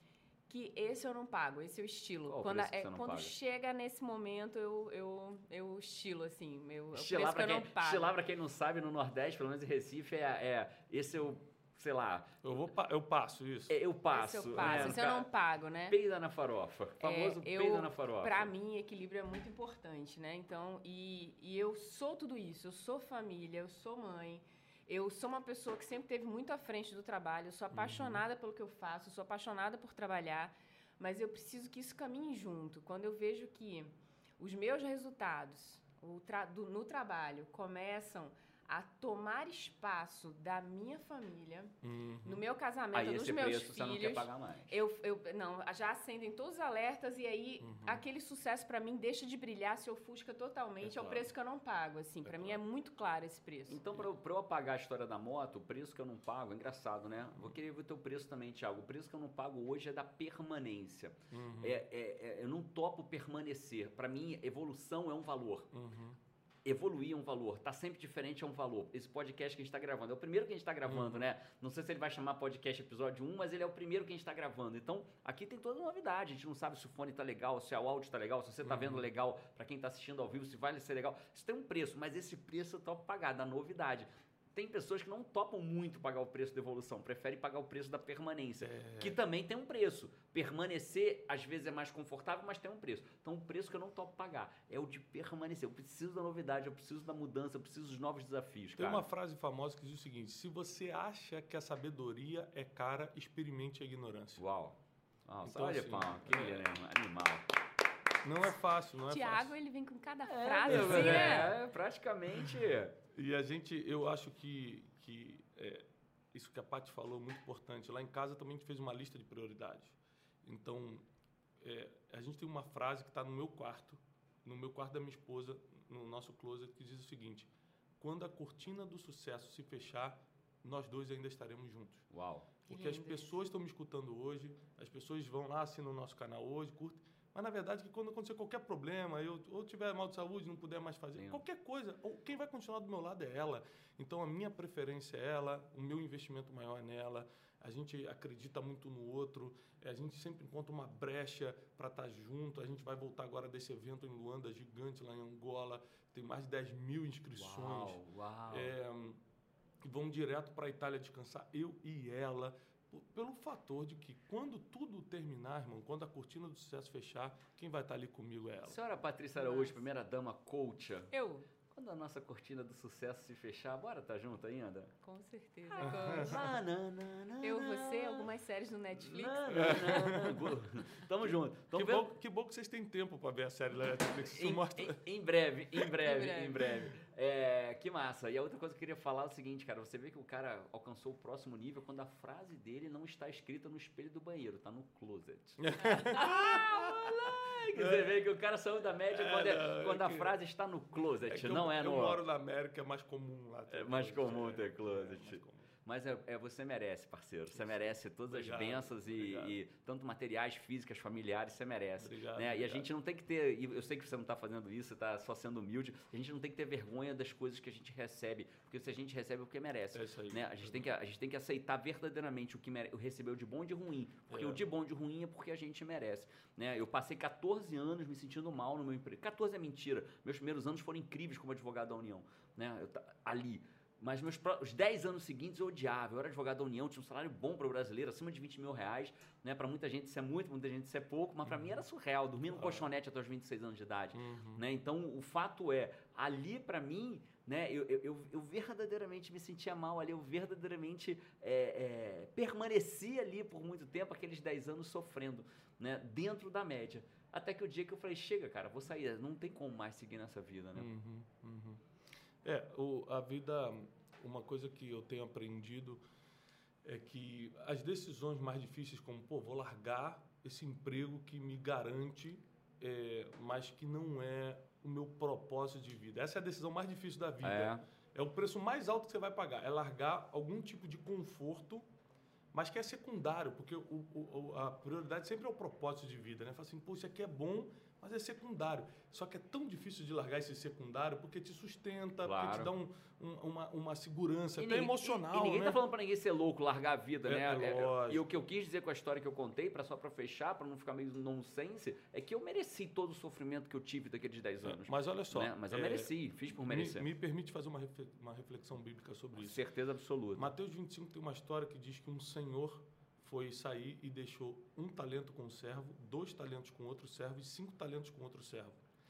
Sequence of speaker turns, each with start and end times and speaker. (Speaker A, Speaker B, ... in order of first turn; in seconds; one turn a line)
Speaker A: 0.5-8.1
Speaker B: 2.3-3.3
Speaker B: 6.9-12.4
Speaker C: 12.4-13.8
Speaker B: 13.7-15.3
Speaker A: 14.1-16.0
Speaker C: 14.6-14.9
Speaker B: 15.9-18.5
Speaker A: 17.0-53.8
Speaker C: 27.7-28.2
Speaker C: 41.8-42.4
Speaker B: 42.9-44.8
Speaker C: 47.6-48.0
Speaker B: 50.8-51.3
Speaker C: 52.2-52.6
Speaker B: 53.7-65.7
Speaker C: 61.3-61.8
Speaker C: 65.7-66.2
Speaker B: 66.6-99.1
Speaker C: 70.8-71.2
Speaker C: 78.6-79.1
Speaker C: 88.6-89.2
Speaker C: 98.8-104.4
Speaker B: 104.4-107.5
Speaker C: 105.4-106.7
Speaker C: 108.2-109.5
Speaker A: 109.1-111.6
Speaker B: 110.2-113.0
Speaker C: 110.7-111.5
Speaker C: 112.3-121.0
Speaker C: 121.6-132.1
Speaker B: 132.1-132.5
Speaker A: 132.7-133.3
Speaker C: 132.7-159.2
Speaker B: 141.2-141.4
Speaker B: 157.3-158.7
Speaker C: 159.8-168.8
Speaker B: 168.6-171.1
Speaker A: 169.3-169.9
Speaker A: 171.1-171.5
Speaker B: 171.7-174.9
Speaker A: 175.0-176.5
Speaker B: 175.8-178.3
Speaker C: 175.8-176.4
Speaker A: 177.4-180.0
Speaker B: 179.0-182.1
Speaker C: 179.5-180.6
Speaker C: 181.7-185.0
Speaker B: 184.3-202.2
Speaker A: 186.0-186.8
Speaker C: 195.6-198.2
Speaker A: 195.9-197.0
Speaker C: 199.1-200.4
Speaker C: 201.3-205.7
Speaker B: 203.7-260.9
Speaker C: 207.6-209.6
Speaker C: 212.0-212.9
Speaker C: 219.9-220.9
Speaker C: 224.3-224.6
Speaker C: 241.4-241.8
Speaker C: 242.5-242.9
Speaker C: 244.1-244.6
Speaker C: 260.7-261.8
Speaker C: 262.4-266.0
Speaker C: 266.8-281.9
Speaker B: 277.4-277.8
Speaker C: 282.5-295.8
Speaker B: 292.2-292.7
Speaker B: 294.6-307.1
Speaker C: 297.2-298.2
Speaker C: 304.6-309.6
Speaker B: 309.4-310.5
Speaker C: 310.3-318.8